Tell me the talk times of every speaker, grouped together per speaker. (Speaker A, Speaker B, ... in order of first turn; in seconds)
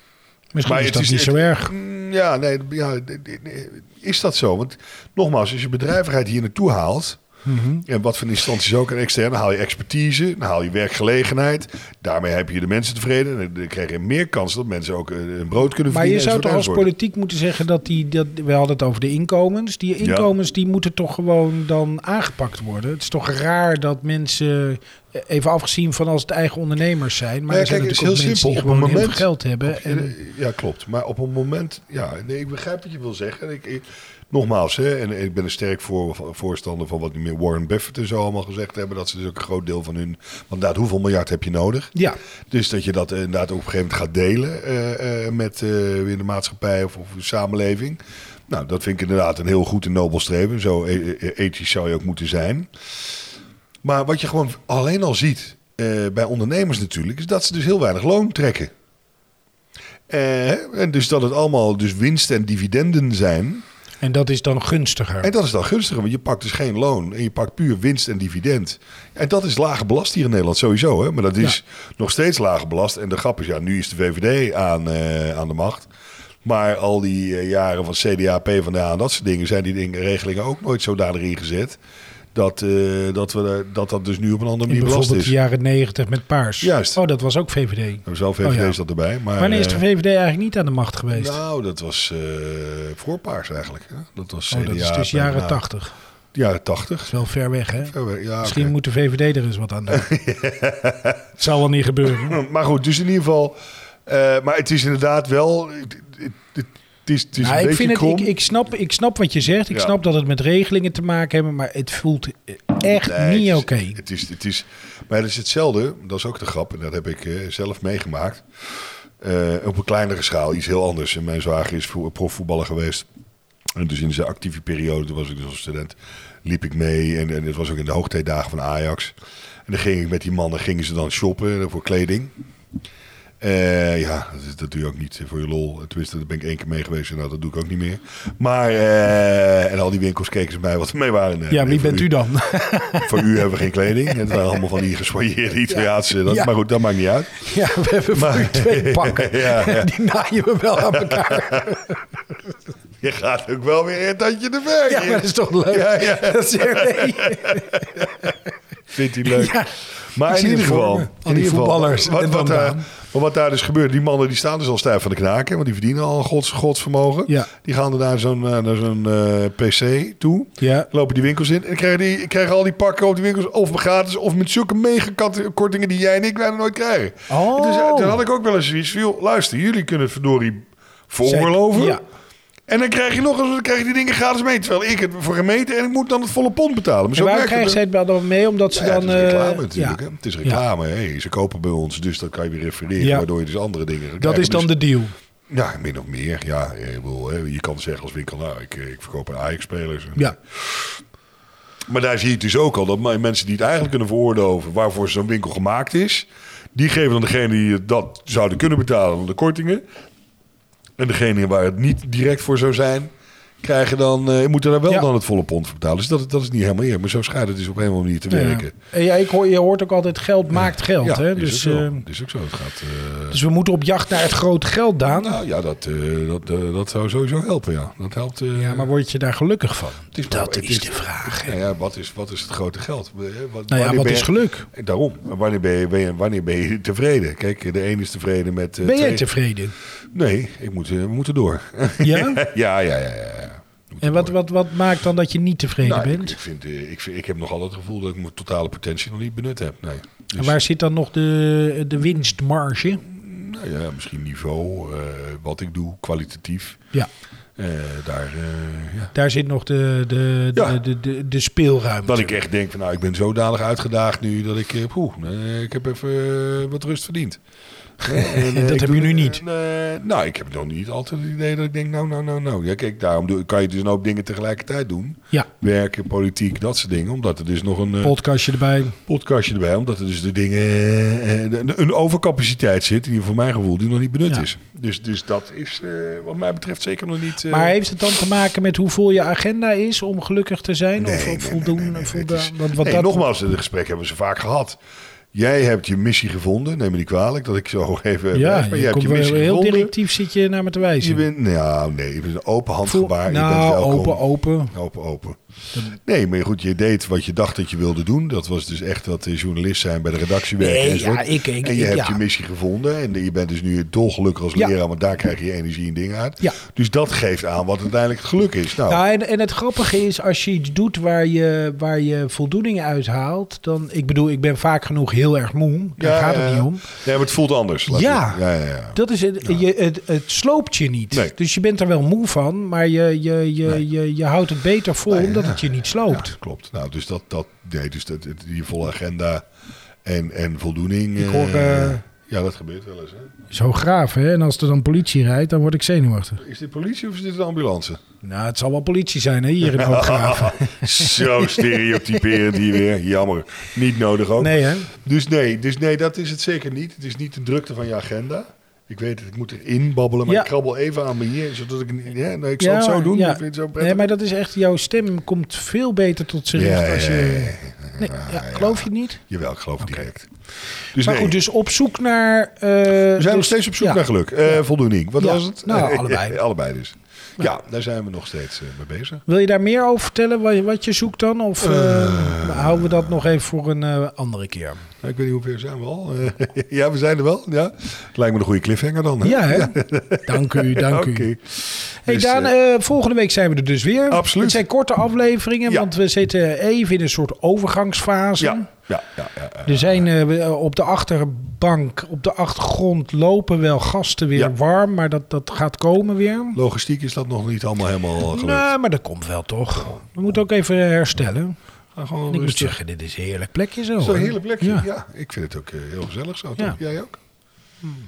Speaker A: 0.5-1.7, 7.5-7.8, 15.8-30.1, 64.0-65.3, 84.7-88.8, 89.3-91.4, 94.5-95.9, 97.1-100.1, 101.4-102.4, 107.4-114.0, 141.5-143.4, 144.1-144.7, 145.7-146.5, 147.3-152.0, 154.9-158.3, 159.2-162.9, 170.6-170.9, 177.3-178.2, 181.2-182.0, 187.1-190.6, 193.0-193.2, 194.2-195.1, 218.3-222.0, 223.3-225.4, 228.5-231.6, 233.7-234.7, 238.8-239.7, 242.0-242.4, 244.0-246.4, 250.4-253.1, 259.1-262.4, 268.0-269.4, 278.0-278.9, 287.4-293.2, 298.3-301.2, 302.8-304.7, 310.6-312.2, 318.9-326.9, 327.9-336.3, 341.2-342.0, 343.5-346.4, 348.2-352.7, 354.4-354.9, 362.6-369.2, 370.9-374.6, 375.2-376.4, 379.3-384.8, 389.2-398.7, 399.6-406.6, 408.2-411.6, 412.3-414.9
Speaker B: 0.6-7.2, 7.8-16.9, 20.0-20.3, 27.5-41.9, 42.5-52.7, 53.8-58.7, 60.1-63.6, 65.2-75.9, 76.4-81.8, 82.3-85.3, 86.6-87.0, 88.0-89.8, 91.1-95.6, 96.3-97.1, 97.8-98.7, 99.9-101.2, 102.1-108.3, 112.8-123.0, 123.7-129.1, 129.7-132.3, 133.4-142.3, 143.0-147.4, 148.1-149.9, 150.8-151.8, 153.0-158.3, 158.9-182.0, 182.7-187.8, 188.7-194.7, 195.5-201.0, 201.9-209.8, 211.0-213.1, 213.6-218.7, 221.0-223.4, 225.0-228.9, 230.1-239.2, 240.1-244.3, 245.8-250.6, 253.0-256.8, 257.6-259.1, 262.0-267.4, 268.0-278.2, 279.0-287.7, 291.0-294.8, 295.3-299.9, 301.0-305.4, 306.0-319.0, 326.0-329.6, 335.1-339.4, 340.0-343.3, 346.4-348.0, 349.6-364.1, 366.5-370.3, 370.9-371.4, 373.1-379.2, 381.6-383.1, 385.0-391.5, 392.1-392.5, 394.1-394.6, 398.4-400.1, 406.5-408.7, 409.8-410.0, 411.9-412.7, 414.0-417.2